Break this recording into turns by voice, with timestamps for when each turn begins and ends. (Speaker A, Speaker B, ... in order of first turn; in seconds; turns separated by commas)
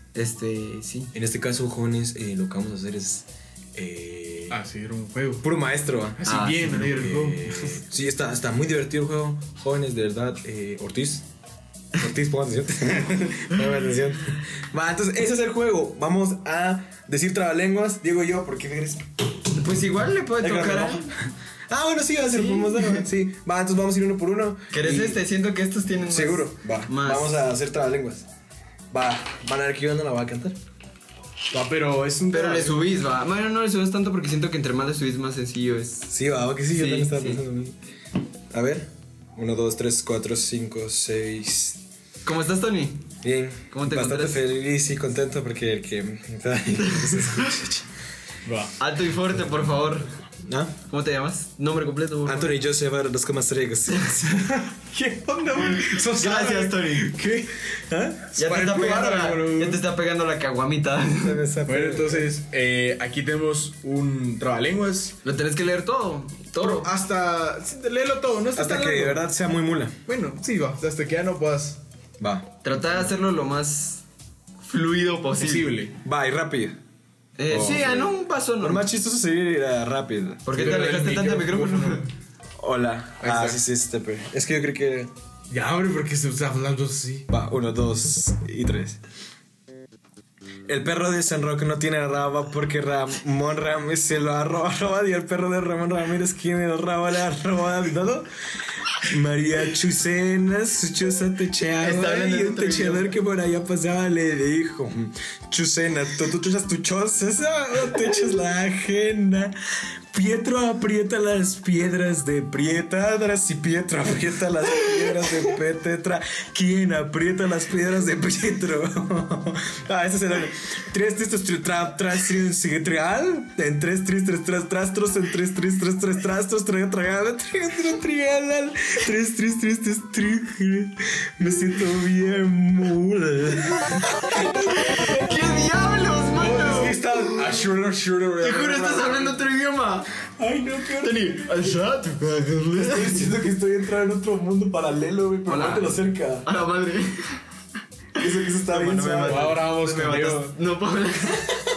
Speaker A: 0.1-1.1, Speaker B: 1.1-4.6, Speaker C: 4.5-5.4, Speaker B: 5.4-6.2, Speaker C: 6.2-7.8, Speaker A: 6.3-6.8, Speaker B: 6.7-11.2, Speaker B: 11.9-19.1, Speaker A: 19.5-21.1, Speaker B: 20.4-25.2, Speaker A: 22.3-23.0, Speaker A: 24.7-27.4, Speaker B: 26.1-28.3, Speaker B: 28.9-30.6, Speaker C: 31.5-32.8, Speaker A: 32.3-36.1, Speaker B: 36.1-37.8, Speaker A: 36.7-37.4, Speaker B: 38.5-41.8, Speaker A: 42.2-43.1, Speaker B: 43.2-47.9, Speaker A: 43.7-44.4, Speaker A: 47.0-47.5, Speaker C: 48.5-48.7, Speaker A: 48.8-50.1, Speaker B: 50.4-50.8, Speaker A: 50.9-52.5, Speaker B: 52.2-54.8, Speaker A: 53.9-54.4, Speaker C: 54.9-57.7, Speaker A: 55.8-57.2, Speaker B: 57.9-58.3, Speaker C: 58.3-59.9, Speaker A: 58.4-61.4, Speaker B: 61.2-62.3, Speaker C: 61.6-65.2, Speaker A: 65.2-66.9, Speaker C: 66.6-69.2, Speaker B: 68.6-70.0, Speaker C: 70.1-71.8, Speaker B: 72.2-72.5, Speaker A: 72.6-74.0, Speaker A: 74.6-75.7, Speaker C: 75.4-76.0, Speaker B: 76.0-76.8, Speaker A: 77.4-78.8, Speaker B: 77.5-80.6, Speaker A: 80.5-82.1, Speaker C: 80.5-82.1, Speaker B: 82.6-85.1, Speaker C: 83.2-83.6, Speaker C: 85.5-87.3, Speaker B: 87.3-89.0, Speaker B: 90.7-98.3, Speaker B: 98.9-109.5, Speaker A: 101.8-103.2, Speaker B: 110.1-135.4, Speaker A: 134.8-137.6, Speaker C: 136.3-139.4, Speaker A: 138.4-140.1, Speaker B: 140.4-141.7, Speaker A: 141.0-143.3, Speaker B: 142.8-146.5, Speaker A: 145.5-147.4, Speaker B: 148.2-149.6, Speaker A: 148.6-151.5, Speaker C: 149.2-150.6